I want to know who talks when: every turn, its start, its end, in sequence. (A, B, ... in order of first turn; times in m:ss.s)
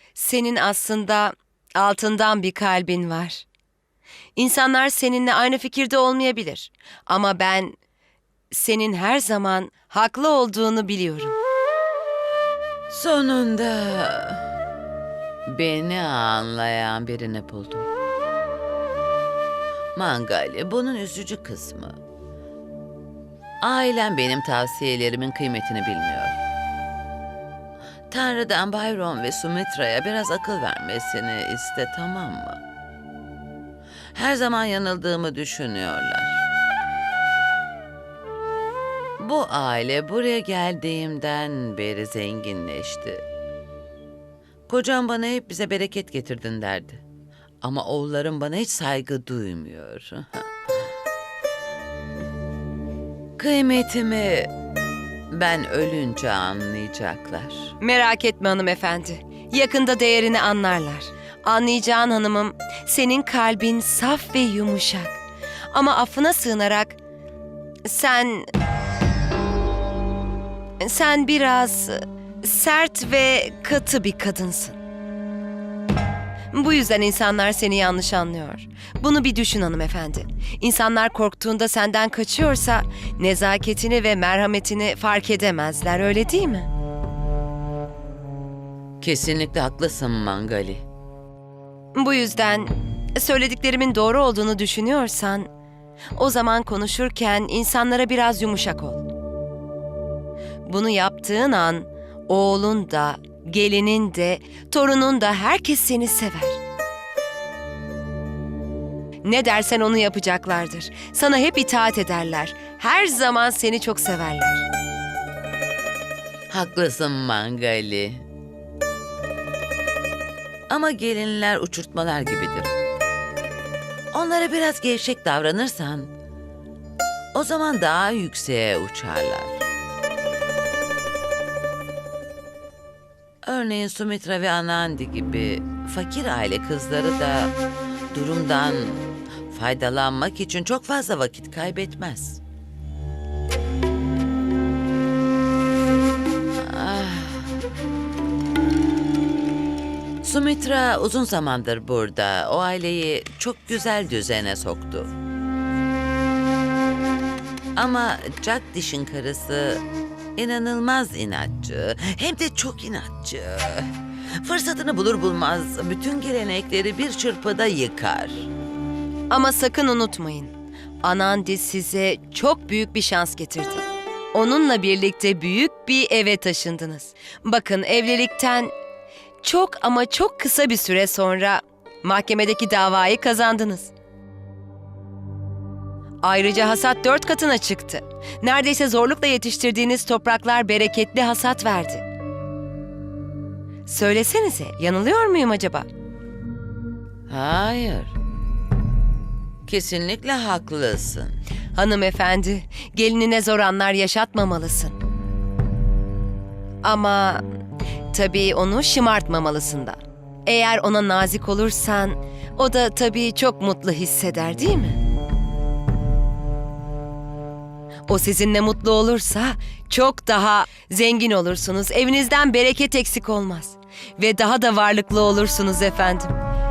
0:00.1-0:03.4 A
0:04.4-0:07.7 A
0:08.5-0:11.4 A
0:12.9-0:14.4 B
0:15.5-0:17.9 B
0:19.9-0:22.0 B
0:23.6-0:26.4 B
0:28.1-0:32.6 B
0:34.1-0:36.4 B
0:39.2-0:43.2 B
0:44.7-0:47.0 B
0:47.6-0:50.4 B
0:53.4-0:54.5 B
0:55.3-0:57.7 B
0:57.8-1:07.0 A
1:07.8-1:08.5 A
1:10.8-1:14.8 A
1:16.5-1:26.7 A
1:29.0-1:30.8 B
1:31.9-1:35.5 A
1:36.2-1:39.1 A
1:40.6-1:46.6 A
1:49.2-1:54.6 A
1:56.5-1:58.2 B
2:00.7-2:02.7 B
2:04.1-2:06.1 B
2:07.3-2:09.6 B
2:13.4-2:17.5 B
2:18.1-2:22.4 B
2:26.6-2:27.5 B
2:30.2-2:35.1 B
2:37.8-2:39.8 B
2:40.4-2:48.5 B
2:49.3-2:58.7 A
2:59.4-3:03.9 A
3:06.2-3:12.0 A
3:13.8-3:15.8 A
3:17.3-3:18.1 B
3:19.6-3:21.4 B
3:21.7-3:25.0 A
3:26.8-3:27.4 A
3:28.1-3:35.0 A
3:38.1-3:46.3 A